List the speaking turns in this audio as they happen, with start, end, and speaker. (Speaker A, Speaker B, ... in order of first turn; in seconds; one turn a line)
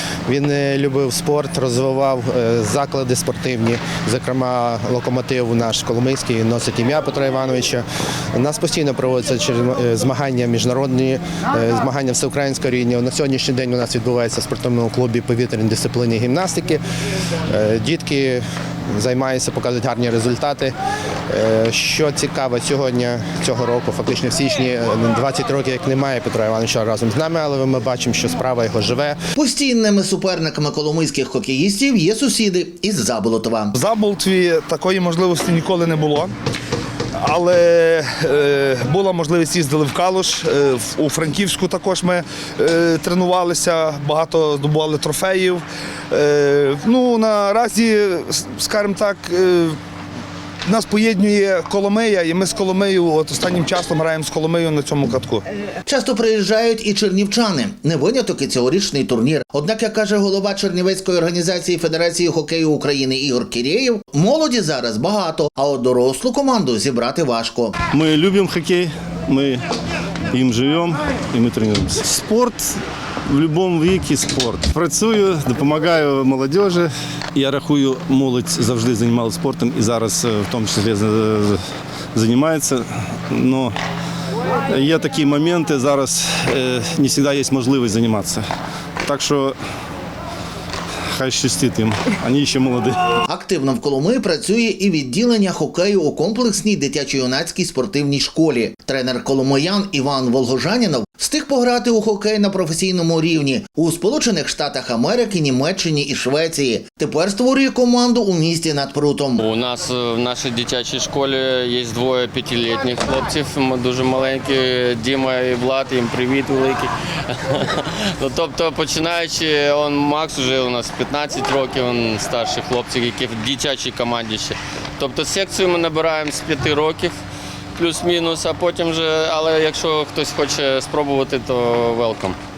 Speaker A: 0.3-16.8
Speaker A: 17.5-18.4
Speaker A: 18.9-20.7
Speaker A: 21.3-29.2
Speaker B: 29.3-33.8
Speaker C: 33.7-36.3
Speaker C: 37.2-49.8
Speaker C: 50.6-55.4
Speaker B: 55.9-67.7
Speaker D: 67.9-69.6
Speaker D: 70.3-81.6
Speaker D: 82.1-83.7
Speaker D: 84.7-88.4
Speaker D: 89.0-89.5
Speaker D: 91.1-93.1
Speaker B: 93.2-109.4
Speaker E: 109.4-127.2
Speaker E: 127.8-132.4